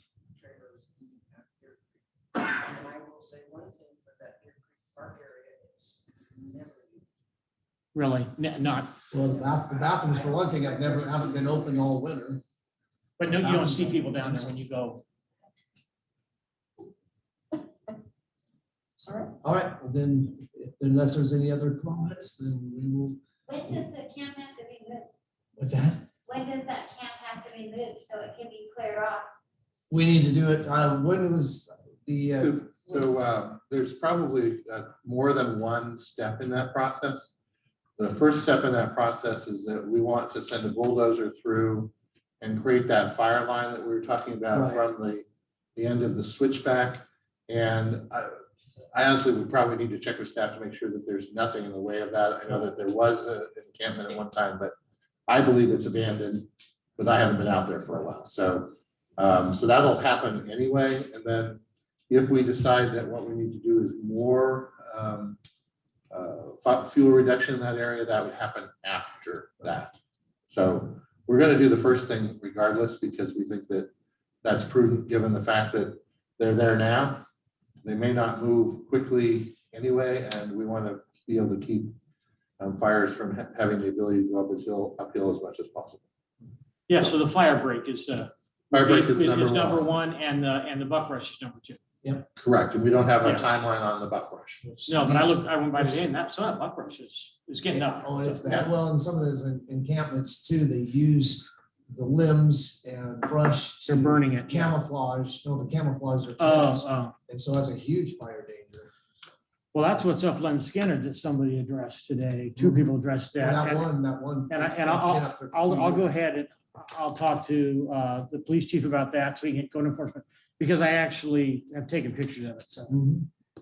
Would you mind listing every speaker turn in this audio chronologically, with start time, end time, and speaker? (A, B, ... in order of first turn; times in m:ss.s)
0:00.3-0:07.1 A
0:07.9-0:08.9 B
0:09.1-0:12.4 C
0:09.3-0:11.8 A
0:13.2-0:15.0 B
0:13.4-0:14.5 C
0:19.0-0:19.3 B
0:19.4-0:23.9 C
0:23.5-0:25.1 D
0:25.6-0:26.0 C
0:26.2-0:29.3 D
0:29.9-0:33.1 C
0:32.4-0:37.3 E
0:38.0-0:45.2 E
0:44.5-0:44.8 C
0:45.8-0:48.3 E
0:48.9-0:54.7 E
0:55.3-1:05.4 E
1:06.1-1:09.9 E
1:10.5-1:13.9 E
1:14.4-1:17.2 E
1:17.8-1:22.0 E
1:22.6-1:26.0 E
1:26.9-1:31.8 B
1:28.7-1:29.9 E
1:32.4-1:34.6 E
1:33.2-1:33.5 B
1:34.6-1:36.1 C
1:34.9-1:38.4 B
1:37.7-1:48.9 C
1:43.8-1:44.8 B
1:46.4-1:47.2 B
1:49.7-1:53.9 B
1:52.6-1:56.1 C
1:54.5-2:03.0 B
2:02.9-2:03.3 C